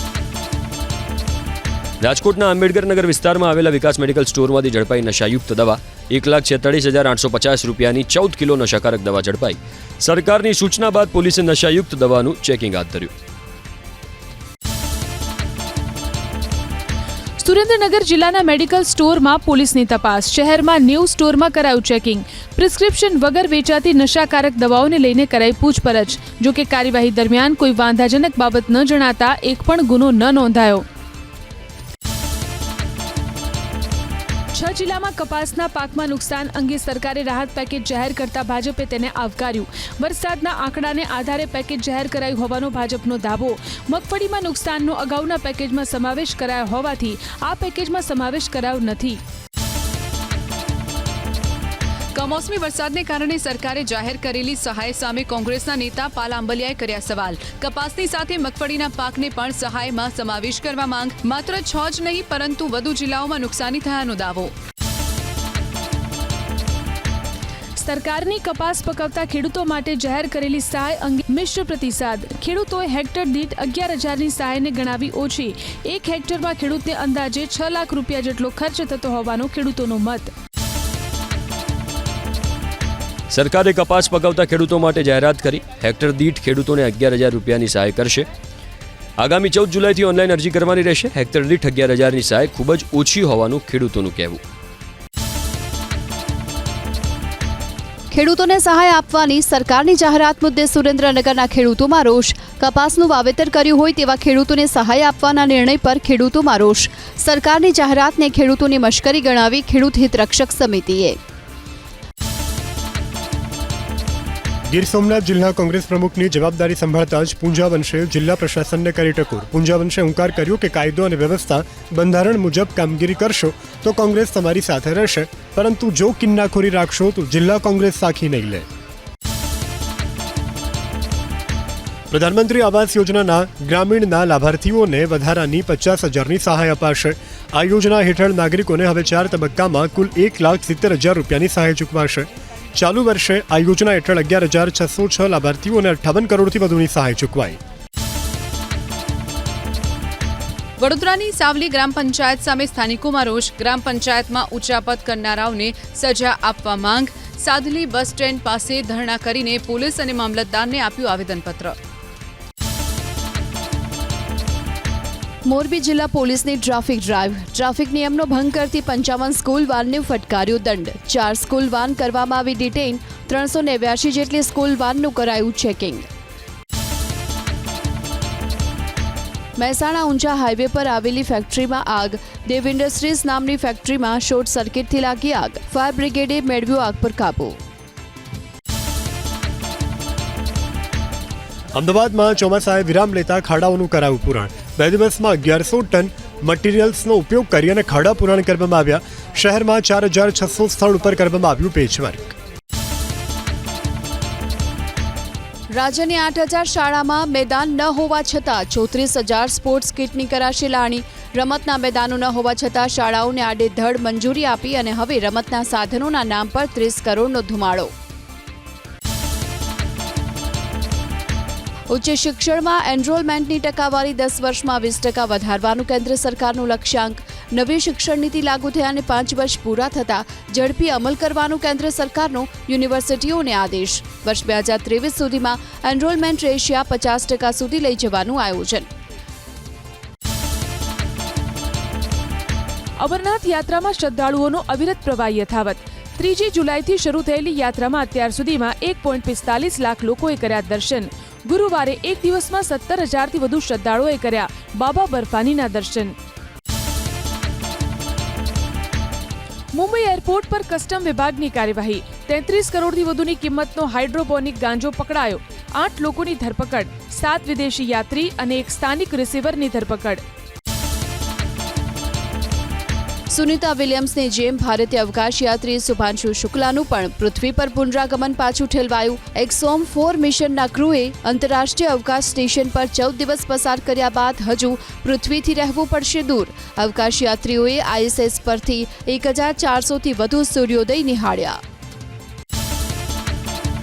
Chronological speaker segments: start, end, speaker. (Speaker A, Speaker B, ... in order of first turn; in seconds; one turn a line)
Speaker A: 2.0-13.1
Speaker B: 17.4-30.9
Speaker B: 34.5-49.2
Speaker C: 52.1-64.5
Speaker B: 67.8-80.3
Speaker A: 83.3-88.3
Speaker A: 89.2-94.4
Speaker D: 98.1-111.2
Speaker E: 114.7-128.7
Speaker E: 132.1-147.6
Speaker C: 150.8-161.8
Speaker D: 165.5-176.1
Speaker D: 179.6-187.6
Speaker E: 191.7-202.3
Speaker D: 205.7-217.9
Speaker D: 221.9-238.9
Speaker B: 243.0-256.2
Speaker B: 259.7-270.2
Speaker D: 273.3-291.6